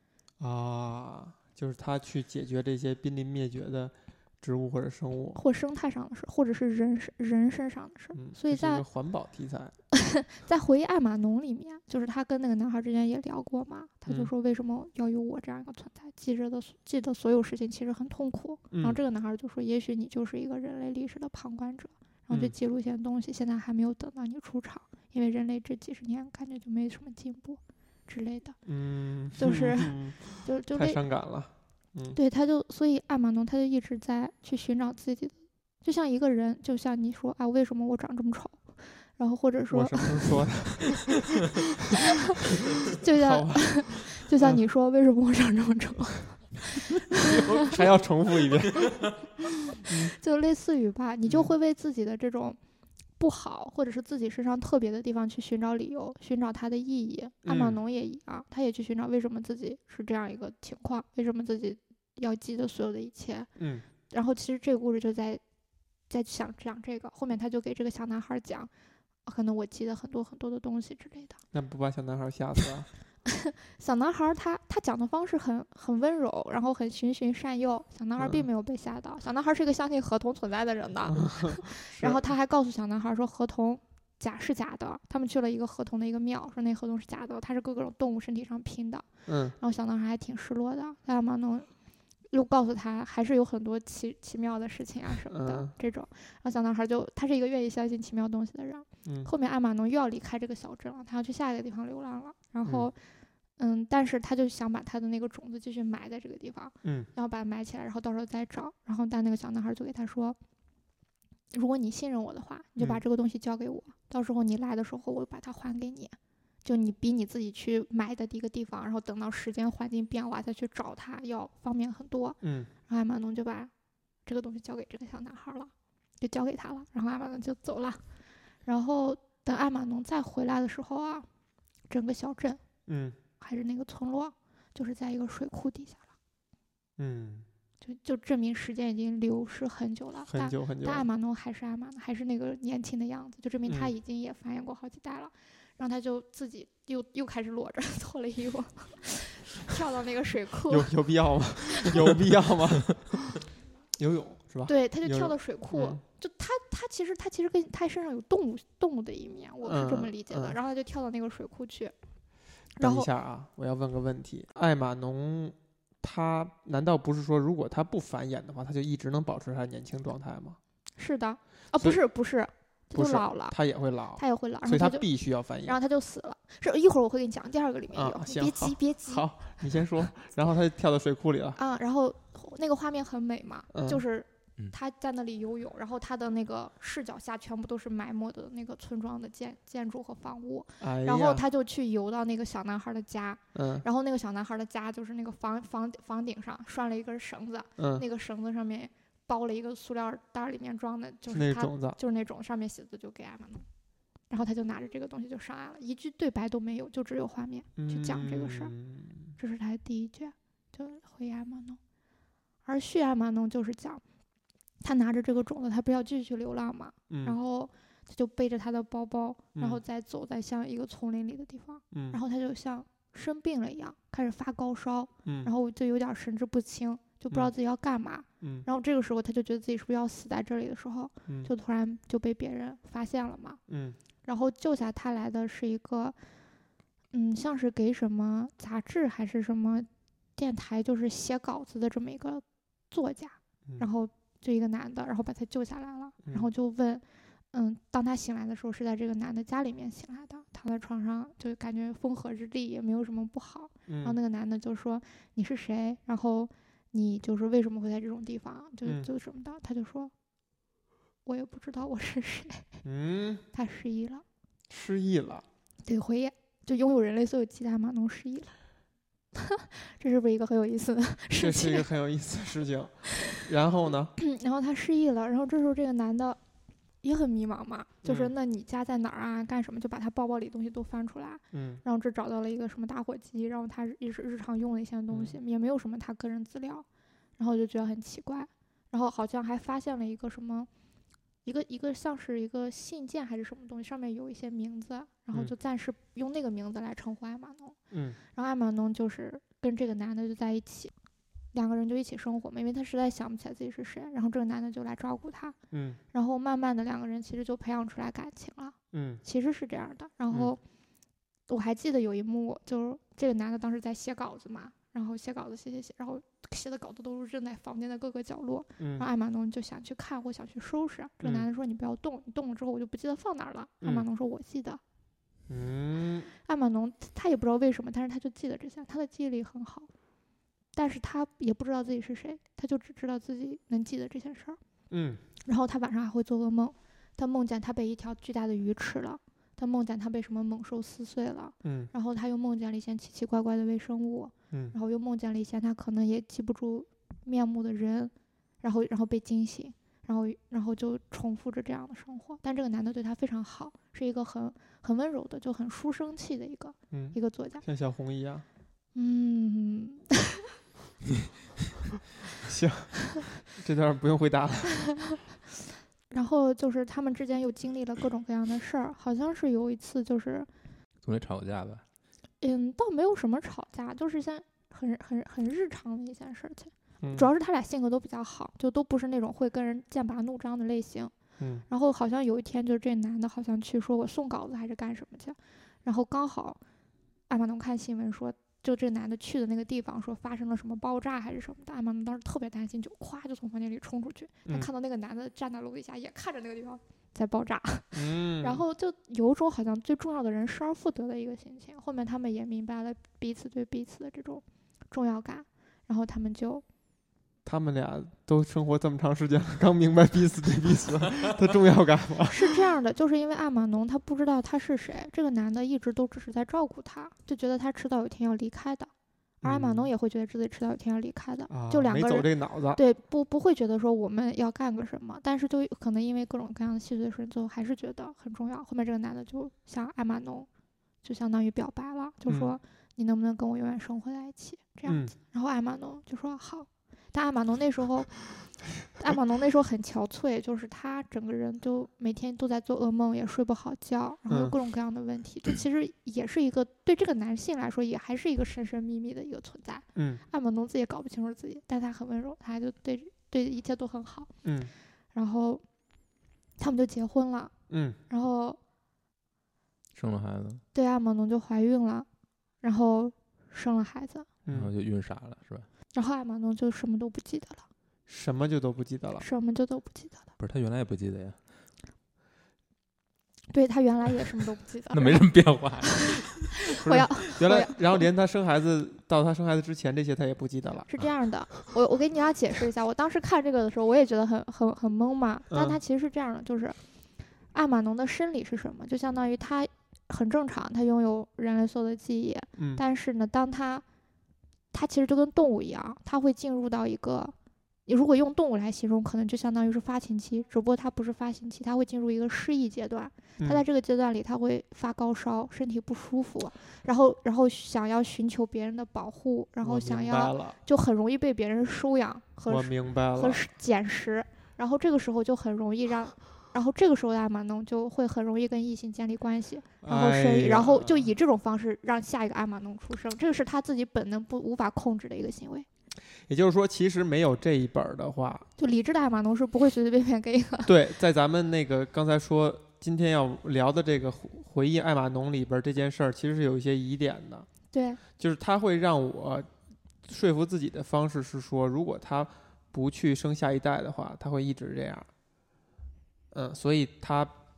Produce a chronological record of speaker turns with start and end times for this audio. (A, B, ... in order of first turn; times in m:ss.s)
0:00.4-0:05.4 A
0:05.4-0:08.8 B
0:08.2-0:09.8 A
0:09.9-0:28.6 B
0:18.7-0:19.0 A
0:28.7-0:32.2 A
0:29.4-0:31.0 B
0:32.1-0:40.4 B
0:39.7-0:41.4 A
0:42.8-0:47.4 B
0:43.1-0:44.6 A
0:47.2-0:49.2 A
0:49.8-0:50.1 A
0:49.8-0:52.6 B
0:51.3-0:51.5 A
0:53.2-1:03.5 B
0:57.4-0:57.8 A
1:03.6-1:03.9 A
1:04.1-1:05.4 B
1:06.1-1:08.7 B
1:09.3-1:11.4 B
1:11.5-1:12.9 A
1:13.3-1:31.7 B
1:18.2-1:18.4 A
1:21.1-1:22.3 A
1:29.3-1:29.6 A
1:32.3-1:43.0 B
1:35.3-1:35.7 A
1:39.0-1:39.3 A
1:42.6-1:42.9 A
1:43.6-1:50.4 B
1:46.8-1:47.1 A
1:51.5-2:03.7 B
2:02.4-2:02.7 A
2:04.3-2:08.0 B
2:08.7-2:11.3 B
2:11.9-2:12.6 B
2:12.9-2:13.2 A
2:13.4-2:16.0 B
2:17.0-2:17.5 A
2:17.8-2:30.9 B
2:20.3-2:21.1 A
2:23.7-2:23.9 A
2:30.7-2:33.4 A
2:34.0-2:36.0 A
2:34.7-2:41.9 B
2:39.6-2:40.6 A
2:42.8-2:43.1 B
2:42.8-2:50.6 A
2:51.0-2:53.6 B
2:51.8-2:52.0 A
2:52.9-2:55.8 A
2:54.2-2:55.1 B
2:55.6-2:59.2 B
2:57.9-3:01.6 A
3:01.6-3:23.7 B
3:03.7-3:04.0 A
3:10.8-3:11.4 A
3:13.6-3:13.8 A
3:17.8-3:18.0 A
3:21.3-3:22.0 A
3:24.3-3:28.8 B
3:27.8-3:29.4 A
3:29.4-3:31.8 B
3:32.6-3:34.0 B
3:34.8-3:53.6 B
3:37.1-3:37.4 A
3:39.6-3:39.8 A
3:41.9-3:42.2 A
3:45.3-3:45.5 A
3:48.4-3:48.7 A
3:53.7-3:54.0 A
3:54.2-3:56.2 B
3:57.1-4:20.1 B
4:06.2-4:06.5 A
4:13.9-4:14.2 A
4:18.8-4:19.1 A
4:21.2-4:22.7 B
4:22.8-4:23.4 A
4:23.5-4:24.2 B
4:24.7-4:25.4 A
4:25.8-4:28.5 B
4:29.4-4:31.9 B
4:31.4-4:34.1 A
4:34.2-4:36.4 B
4:37.0-4:46.9 B
4:38.0-4:38.3 A
4:41.5-4:41.8 A
4:45.1-4:45.4 A
4:47.4-4:50.7 B
4:51.4-5:00.9 B
4:57.9-4:58.2 A
5:01.5-5:05.6 B
5:05.7-5:06.0 A
5:06.1-5:10.6 B
5:08.9-5:09.2 A
5:11.5-5:24.8 B
5:18.8-5:19.1 A
5:21.2-5:21.5 A
5:23.8-5:24.1 A
5:25.5-5:26.3 A
5:26.4-5:29.9 B
5:30.7-5:34.6 B
5:34.9-5:35.2 A
5:35.4-5:57.6 B
5:41.6-5:41.9 A
5:56.9-5:58.4 A
5:59.0-6:00.4 B
6:02.4-6:05.0 A
6:04.8-6:05.2 B
6:06.1-6:10.5 B
6:11.0-6:11.8 C
6:12.4-6:21.1 B
6:17.0-6:17.3 A
6:21.4-6:21.6 A
6:21.7-6:26.6 B
6:27.3-6:46.6 B
6:37.9-6:38.6 A
6:47.4-6:52.6 A
6:52.3-6:58.9 B
6:59.4-6:59.9 A
6:59.4-7:10.5 B
7:01.5-7:02.8 A
7:11.0-7:34.3 B
7:12.3-7:12.5 A
7:14.9-7:15.1 A
7:24.3-7:24.6 A
7:30.0-7:30.2 A
7:34.4-7:34.7 A
7:35.1-7:35.6 B
7:36.6-7:37.5 B
7:37.7-7:38.0 A
7:38.1-7:38.6 B
7:40.0-7:40.6 C
7:40.7-7:42.1 B
7:42.6-7:44.3 B
7:44.5-7:45.7 C
7:45.9-7:47.6 B
7:48.1-7:49.2 A
7:49.2-7:50.3 B
7:50.4-7:51.4 C
7:53.5-7:55.9 B
7:54.9-7:56.6 C
7:56.7-7:58.0 B
7:56.8-8:00.9 A
8:00.9-8:06.8 B
8:05.5-8:05.8 A
8:07.5-8:13.8 B
8:12.6-8:12.8 A
8:14.7-8:17.4 B
8:17.9-8:45.7 B
8:29.6-8:30.6 A
8:32.5-8:33.5 A
8:39.8-8:41.1 A
8:46.2-8:48.5 A
8:48.6-8:50.7 B
8:50.6-8:57.5 A
8:57.7-8:58.0 B
8:58.2-8:59.5 A
9:00.0-9:05.1 A
9:06.3-9:07.3 A